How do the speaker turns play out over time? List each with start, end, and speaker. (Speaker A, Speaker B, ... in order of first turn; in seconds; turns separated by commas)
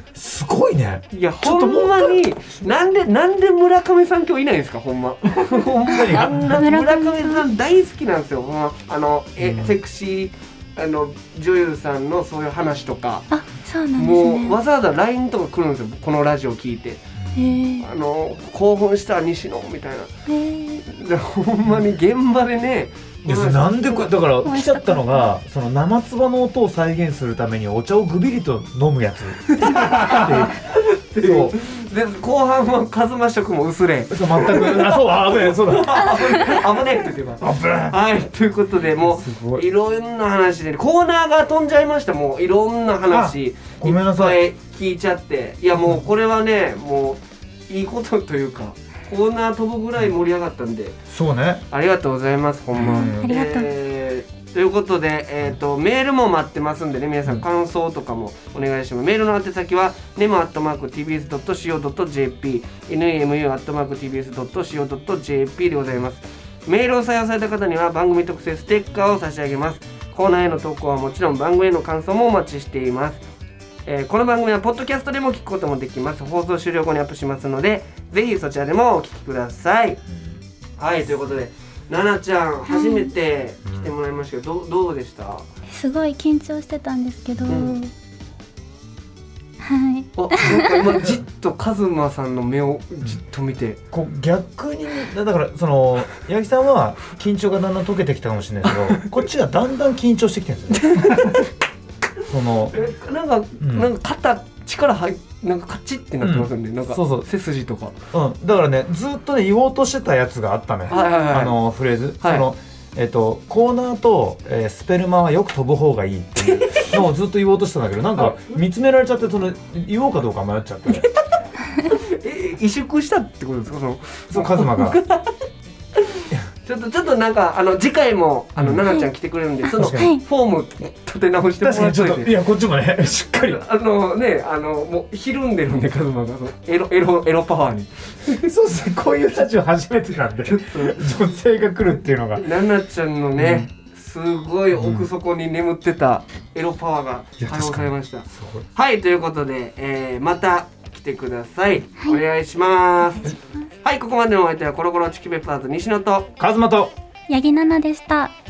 Speaker A: 0.1-2.2, Speaker B: 1.1-13.2, Speaker A: 5.5-6.5, Speaker C: 5.9-7.4, Speaker A: 9.4-9.8, Speaker C: 13.3-14.6, Speaker B: 13.9-17.0, Speaker A: 17.2-17.5, Speaker C: 17.3-17.9, Speaker B: 17.8-20.1, Speaker C: 20.3-20.8, Speaker B: 20.8-24.1, Speaker A: 23.2-30.5, Speaker C: 24.4-25.3, Speaker B: 29.5-51.0, Speaker A: 31.2-31.5, Speaker A: 34.1-36.3, Speaker A: 37.4-38.0, Speaker A: 39.0-39.6, Speaker A: 43.1-44.4, Speaker A: 51.1-51.6, Speaker B: 51.7-73.2, Speaker A: 52.8-53.3, Speaker C: 52.8-53.7, Speaker B: 73.8-80.0, Speaker B: 80.8-85.4, Speaker C: 82.7-83.1, Speaker A: 83.7-83.9, Speaker C: 85.7-87.9, Speaker B: 87.5-87.8, Speaker C: 89.6-91.0, Speaker B: 90.2-93.8, Speaker A: 93.9-101.4, Speaker B: 98.7-99.1, Speaker B: 100.7-101.5, Speaker A: 102.3-102.8, Speaker B: 102.7-108.0, Speaker A: 103.6-103.9, Speaker A: 106.2-107.3, Speaker A: 108.1-121.1, Speaker B: 110.9-111.6, Speaker C: 110.9-111.4, Speaker B: 112.2-112.5, Speaker B: 116.4-117.0, Speaker B: 121.0-121.3, Speaker B: 121.8-125.3, Speaker A: 124.3-125.0, Speaker B: 126.0-132.3, Speaker A: 128.6-128.8, Speaker C: 129.7-130.2, Speaker A: 129.8-130.1, Speaker A: 131.6-133.6, Speaker B: 133.4-138.4, Speaker A: 138.3-142.4, Speaker B: 140.4-141.0, Speaker B: 142.4-156.3, Speaker A: 143.4-143.7, Speaker A: 144.7-145.1, Speaker A: 147.4-148.7, Speaker C: 153.2-153.6, Speaker A: 156.4-156.9, Speaker C: 157.3-158.3